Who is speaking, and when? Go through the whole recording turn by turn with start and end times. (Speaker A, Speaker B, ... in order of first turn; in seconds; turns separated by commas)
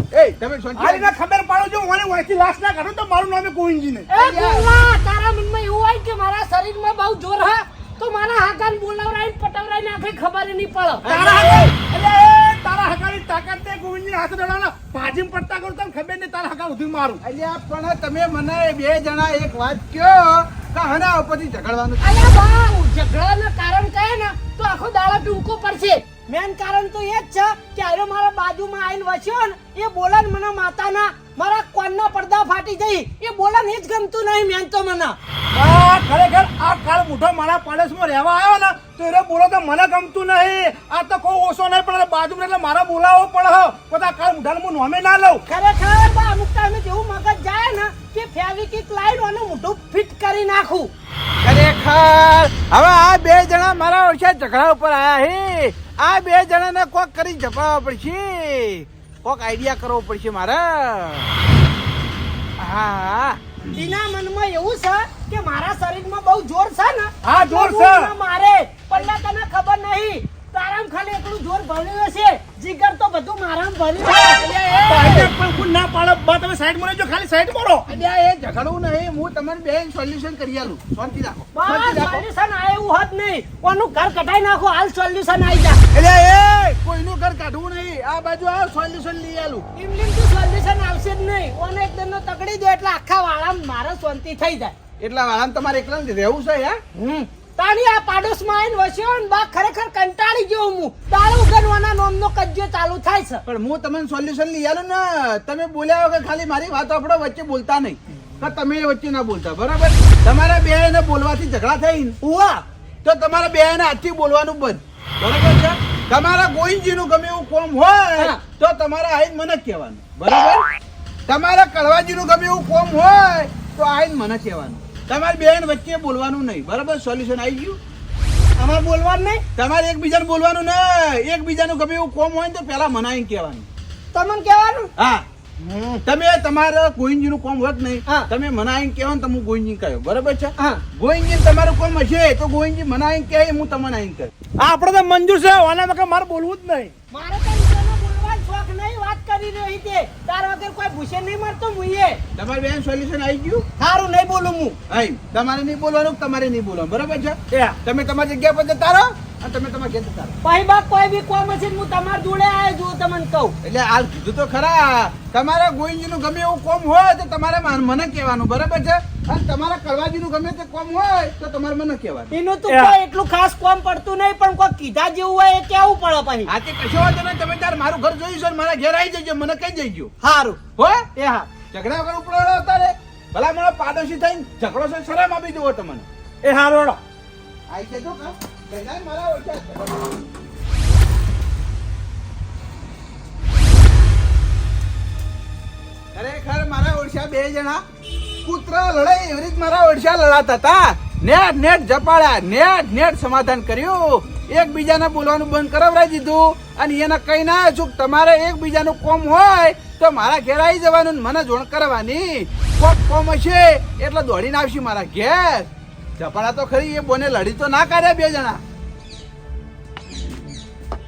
Speaker A: 0.1-1.1, Speaker B: 0.8-4.1, Speaker C: 4.1-11.1, Speaker A: 4.1-4.7, Speaker A: 11.0-11.7, Speaker B: 11.1-17.2, Speaker A: 17.2-22.4, Speaker C: 22.0-35.2, Speaker B: 35.5-45.4, Speaker C: 45.5-50.9, Speaker A: 51.4-61.3, Speaker A: 62.6-63.4, Speaker C: 63.7-74.4, Speaker B: 67.2-68.1, Speaker A: 74.3-75.3, Speaker B: 74.9-77.9, Speaker A: 77.9-82.2, Speaker C: 81.5-85.8, Speaker A: 85.9-89.7, Speaker C: 89.8-94.8, Speaker A: 95.0-96.8, Speaker C: 96.9-103.4, Speaker A: 103.4-112.2, Speaker C: 112.2-112.6, Speaker A: 113.0-120.6, Speaker A: 121.3-127.8, Speaker C: 128.6-129.4, Speaker A: 129.6-133.7, Speaker C: 134.1-134.9, Speaker A: 135.0-135.2, Speaker C: 135.6-136.0, Speaker A: 136.0-144.3, Speaker B: 144.6-146.9, Speaker C: 147.1-152.2, Speaker A: 152.4-153.6, Speaker C: 153.8-154.8, Speaker A: 154.9-160.3, Speaker C: 160.4-163.5, Speaker A: 163.6-172.3, Speaker C: 172.3-176.5, Speaker B: 172.7-172.9, Speaker A: 176.5-180.1, Speaker C: 180.2-180.6, Speaker A: 180.8-181.1, Speaker C: 181.2-181.5, Speaker A: 181.7-186.1, Speaker B: 186.4-187.0, Speaker A: 187.7-190.2, Speaker A: 196.1-197.8, Speaker A: 198.4-218.6